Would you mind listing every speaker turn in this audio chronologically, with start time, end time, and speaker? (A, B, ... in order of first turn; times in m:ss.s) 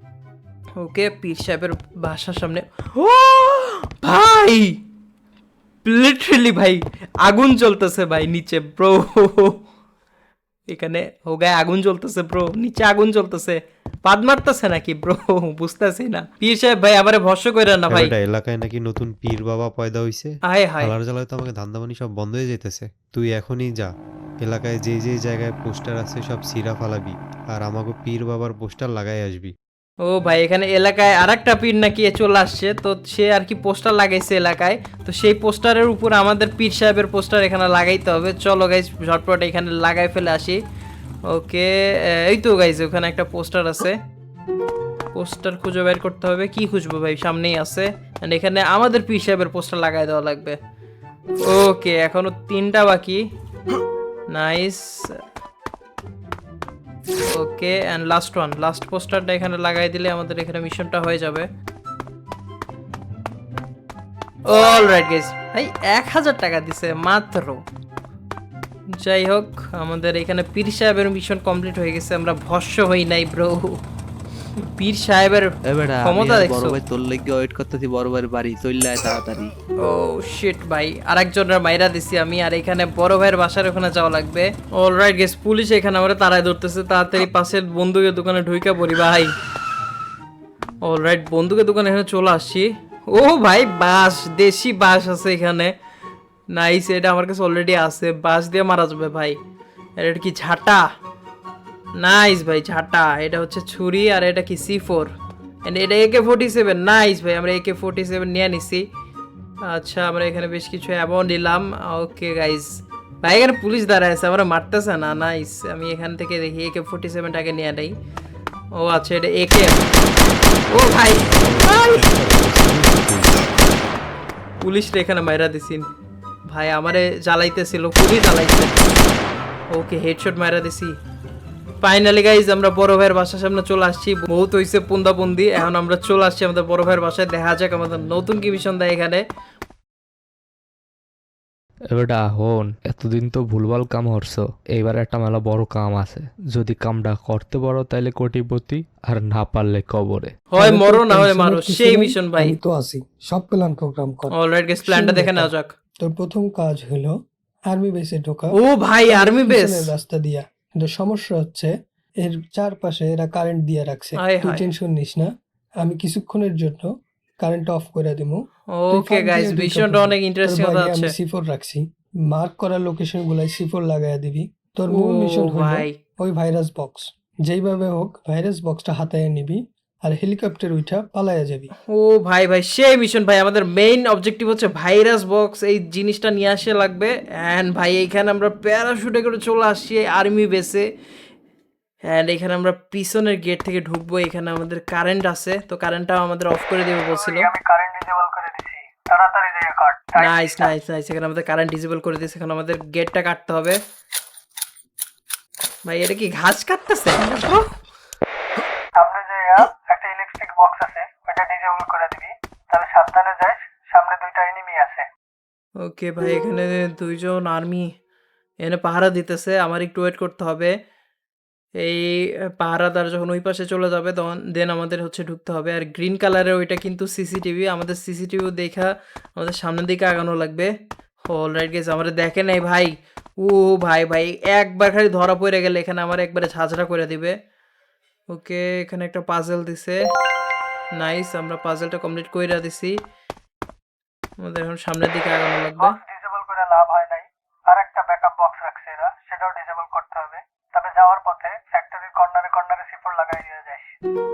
0:00.8-0:04.8 A
0:05.8-0:09.6 A
0:10.7-0:18.1 A
0:17.9-0:29.5 B
0:20.4-0:20.9 A
0:30.0-0:40.6 A
0:41.3-0:44.0 A
0:45.1-0:50.6 A
0:51.4-0:53.2 A
0:54.3-0:55.1 A
0:57.3-1:01.5 A
1:04.4-1:07.6 A
1:08.9-1:13.8 A
1:14.6-1:15.5 A
1:15.7-1:19.5 C
1:16.0-1:16.8 A
1:19.8-1:29.3 A
1:30.8-1:35.7 A
1:36.5-1:39.4 A
1:40.0-1:40.8 A
1:42.0-1:45.1 A
1:45.6-1:48.8 A
1:49.6-1:57.9 A
1:58.7-1:59.8 A
2:00.7-2:03.4 B
2:00.7-2:02.2 A
2:04.6-2:05.9 A
2:06.5-2:08.8 A
2:09.7-2:10.9 A
2:11.8-2:19.2 A
2:21.9-2:30.4 D
2:30.5-2:32.6 A
2:30.6-2:35.5 E
2:34.3-2:35.7 A
2:36.0-2:37.1 E
2:37.7-2:38.5 E
2:38.5-2:39.9 A
2:39.0-2:41.7 E
2:42.2-2:45.3 E
2:44.2-2:44.6 A
2:45.8-2:46.9 E
2:47.4-2:48.4 E
2:48.7-2:51.1 A
2:48.9-3:01.7 E
2:54.9-2:55.9 A
3:01.9-3:10.8 A
3:12.1-3:17.5 A
3:17.1-3:20.6 F
3:20.2-3:23.8 A
3:25.8-3:27.6 A
3:29.0-3:35.0 F
3:35.8-3:37.9 A
3:38.6-3:40.7 A
3:41.8-3:50.7 A
3:51.3-3:57.3 A
3:58.3-4:00.0 A
4:00.9-4:03.0 A
4:04.4-4:06.0 A
4:05.8-4:13.9 F